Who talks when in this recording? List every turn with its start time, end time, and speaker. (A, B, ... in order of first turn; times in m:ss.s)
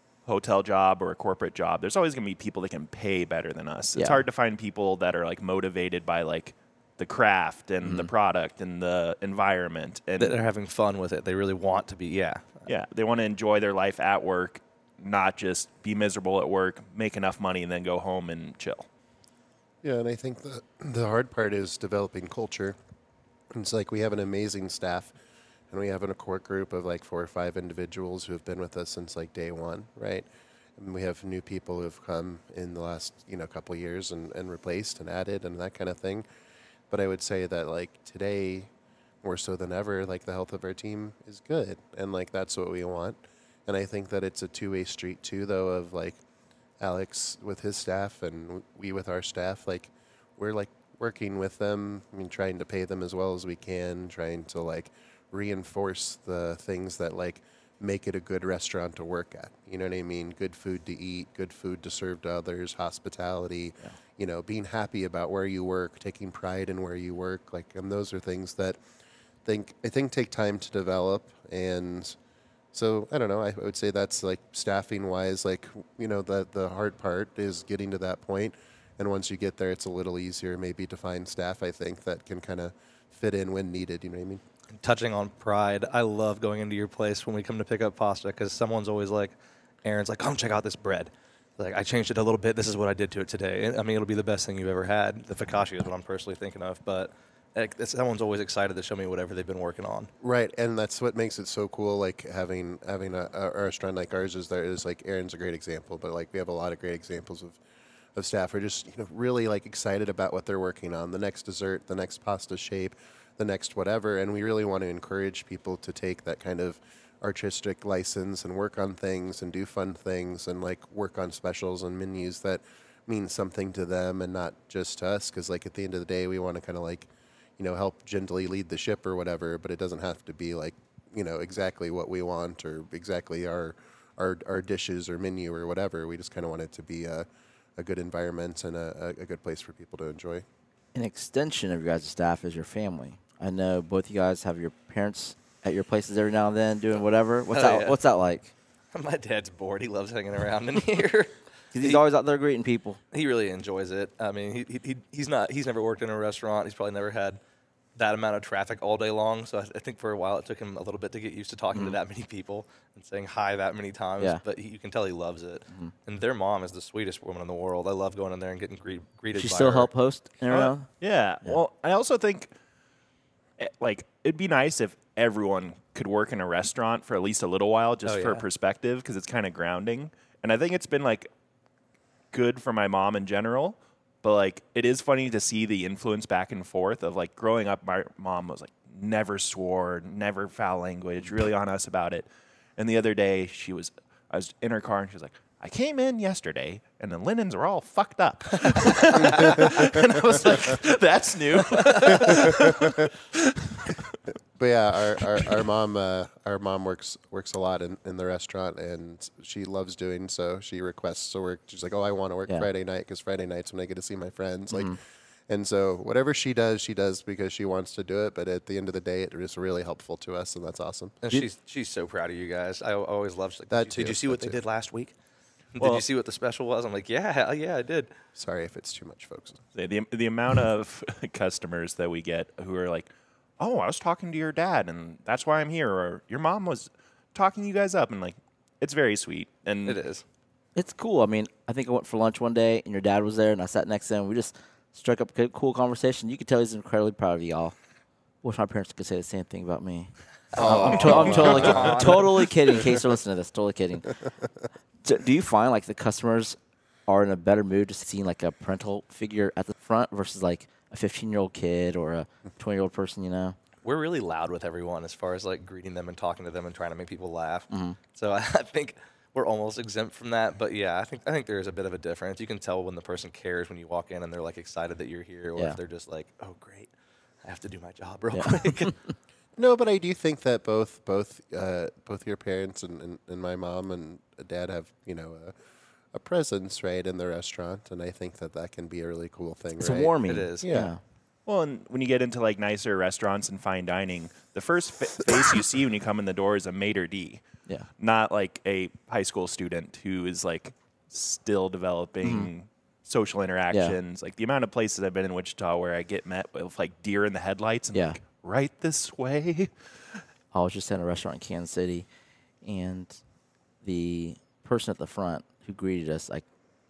0:00.2-0:10.4 A
0:04.0-0:04.2 B
0:07.8-0:08.1 B
0:10.2-0:12.6 C
0:12.7-0:18.9 A
0:19.8-0:22.8 D
0:23.5-0:25.1 D
0:25.7-0:30.2 D
0:30.8-0:36.2 D
0:36.9-0:38.7 D
0:39.2-0:46.2 D
0:46.8-1:08.8 D
1:09.4-1:12.2 D
1:12.7-1:24.4 D
1:24.7-1:40.1 C
1:40.2-1:47.6 D
1:48.1-2:17.2 D
2:17.8-2:20.4 D
2:20.9-2:28.5 B
2:27.5-2:28.0 C
2:28.9-2:32.0 C
2:31.7-2:33.0 B
2:33.1-2:37.4 C
2:38.0-2:49.9 C
2:49.3-2:50.9 B
2:50.5-2:52.5 A
2:53.6-3:01.3 A
2:58.0-2:58.4 C
3:02.3-3:24.0 A
3:19.3-3:19.6 C
3:21.7-3:22.5 C
3:22.5-3:22.9 D
3:24.6-3:35.0 D
3:34.7-3:35.0 B
3:35.5-3:41.2 D
3:41.2-3:45.1 C
3:43.7-3:44.6 D
3:45.7-3:48.1 C
3:48.4-3:49.6 D
3:49.7-4:00.0 A
3:59.8-4:00.2 C
4:00.8-4:07.7 B
4:08.4-4:14.1 B
4:10.5-4:12.5 C
4:10.5-4:12.2 D
4:15.0-4:23.6 B
4:23.8-4:36.9 C
4:27.7-4:28.0 B
4:37.4-4:38.9 C
4:38.3-4:39.1 B
4:39.6-4:45.5 D
4:46.1-4:50.9 D
4:49.8-4:51.0 B
4:50.2-4:50.7 C
4:51.4-4:57.4 A
4:58.0-5:10.2 A
5:02.2-5:02.5 B
5:03.7-5:04.0 B
5:07.9-5:08.2 B
5:10.5-5:12.0 B
5:12.6-5:13.2 B
5:13.8-5:16.4 B